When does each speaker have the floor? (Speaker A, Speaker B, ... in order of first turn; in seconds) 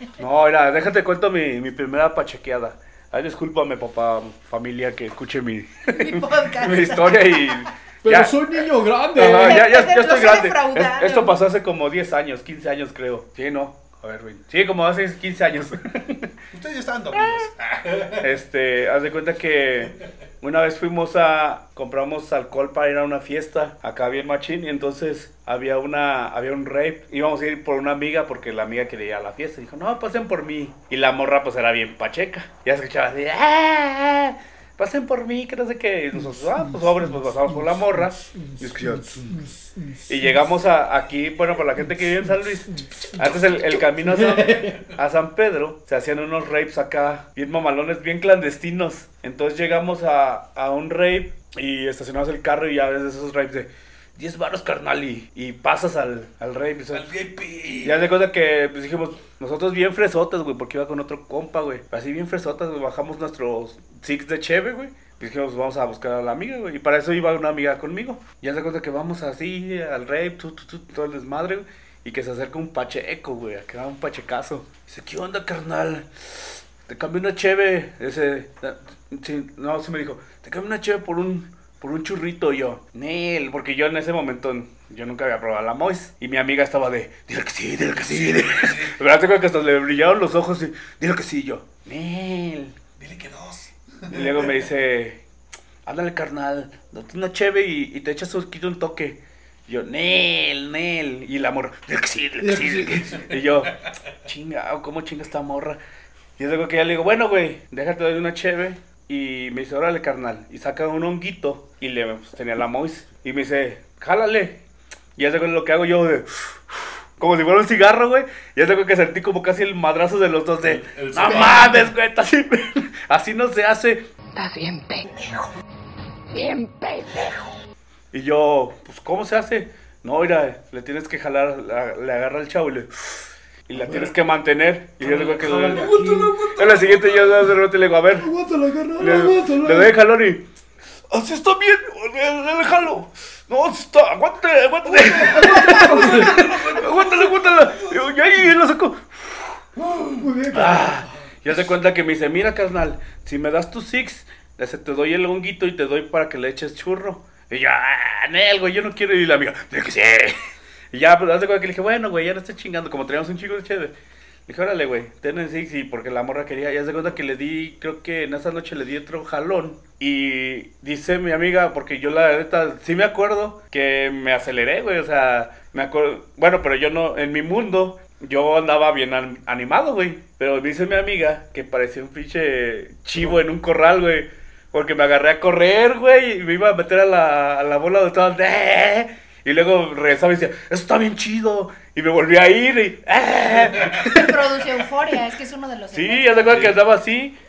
Speaker A: 0.2-8.3, 9.1-16.3, 18.2-39.4, 40.1-57.1, 57.8-92.8, 94.1-95.2, 95.8-105.8, 106.4-114.6, 115.2-124.1, 128.1-135.9, 136.5-138.3, 139.0-140.4, 141.1-149.7, 150.5-160.4, 160.9-163.9, 164.5-194.8, 195.9-197.3
Speaker B: 5.9-7.7, 9.2-11.4, 194.0-196.7
Speaker C: 8.0-9.7, 38.3-40.1, 44.0-44.8, 102.4-103.2, 133.7-134.1, 135.0-136.4, 138.1-139.9, 145.3-146.3, 150.2-151.1
Speaker D: 16.5-18.3, 56.9-58.1, 87.9-89.0, 93.0-94.5, 103.1-103.9, 120.6-121.9, 135.5-137.6, 144.8-148.3, 149.8-150.2, 193.6-194.0, 196.4-196.8
Speaker E: 124.3-125.5, 126.3-127.3